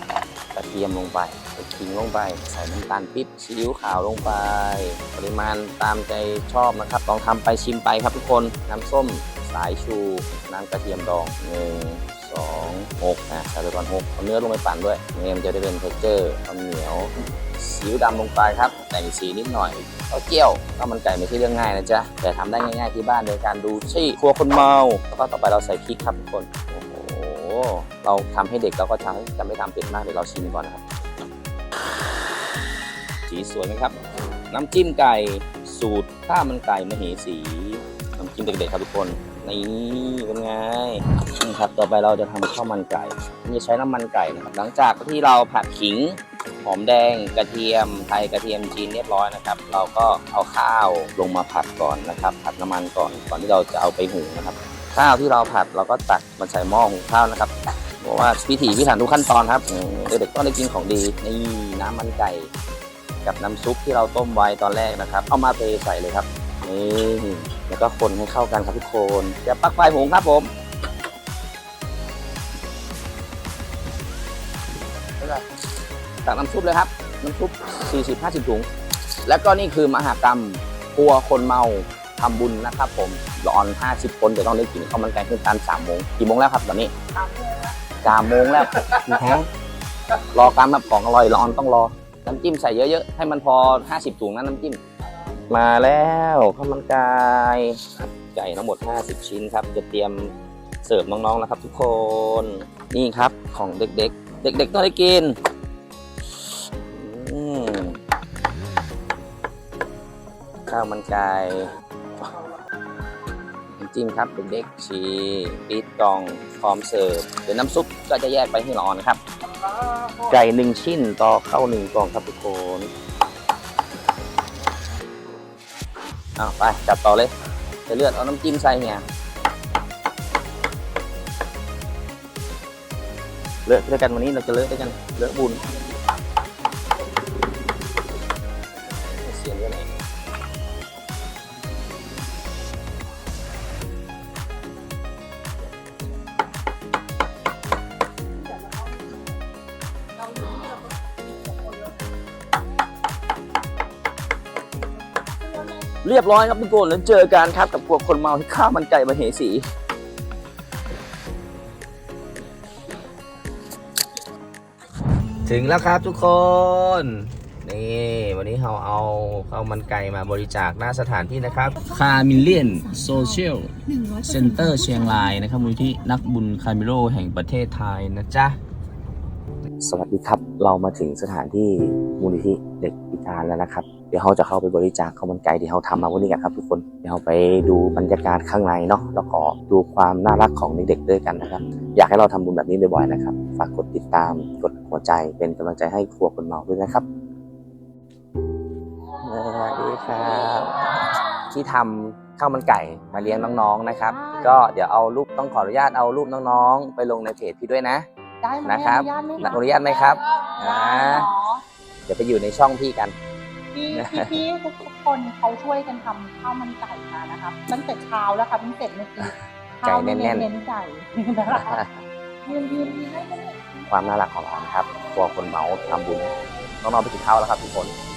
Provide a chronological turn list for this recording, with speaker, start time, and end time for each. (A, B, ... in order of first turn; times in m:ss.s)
0:00.5-0:30.8 A
0:33.3-0:34.0 A
0:34.5-1:02.5 A
1:03.2-1:10.5 A
1:15.2-1:15.4 A
1:16.2-1:18.7 A
1:19.2-1:26.9 A
1:28.0-1:29.5 A
1:30.3-1:34.8 A
1:35.5-1:40.3 A
1:40.8-1:45.4 A
1:46.8-1:48.0 A
1:50.7-1:51.7 A
1:53.8-1:59.2 A
2:00.0-2:02.9 A
2:06.4-2:07.3 A
2:07.9-2:09.0 A
2:13.7-2:15.7 A
2:18.9-2:19.9 A
2:28.4-2:29.3 B
2:30.2-2:32.0 B
2:35.4-2:35.9 B
2:36.0-2:39.6 A
2:45.5-2:58.6 A
2:59.8-3:17.0 A
3:19.2-3:20.9 A
3:21.5-3:28.1 A
3:24.1-3:24.6 B
3:28.4-3:29.7 B
3:28.6-3:31.3 A
3:30.6-3:31.6 B
3:32.1-3:33.2 A
3:33.7-3:41.8 B
3:33.9-3:34.4 A
3:39.8-3:40.5 A
3:41.5-3:42.0 A
3:42.4-3:43.6 B
3:43.9-3:46.3 A
3:46.8-3:47.9 A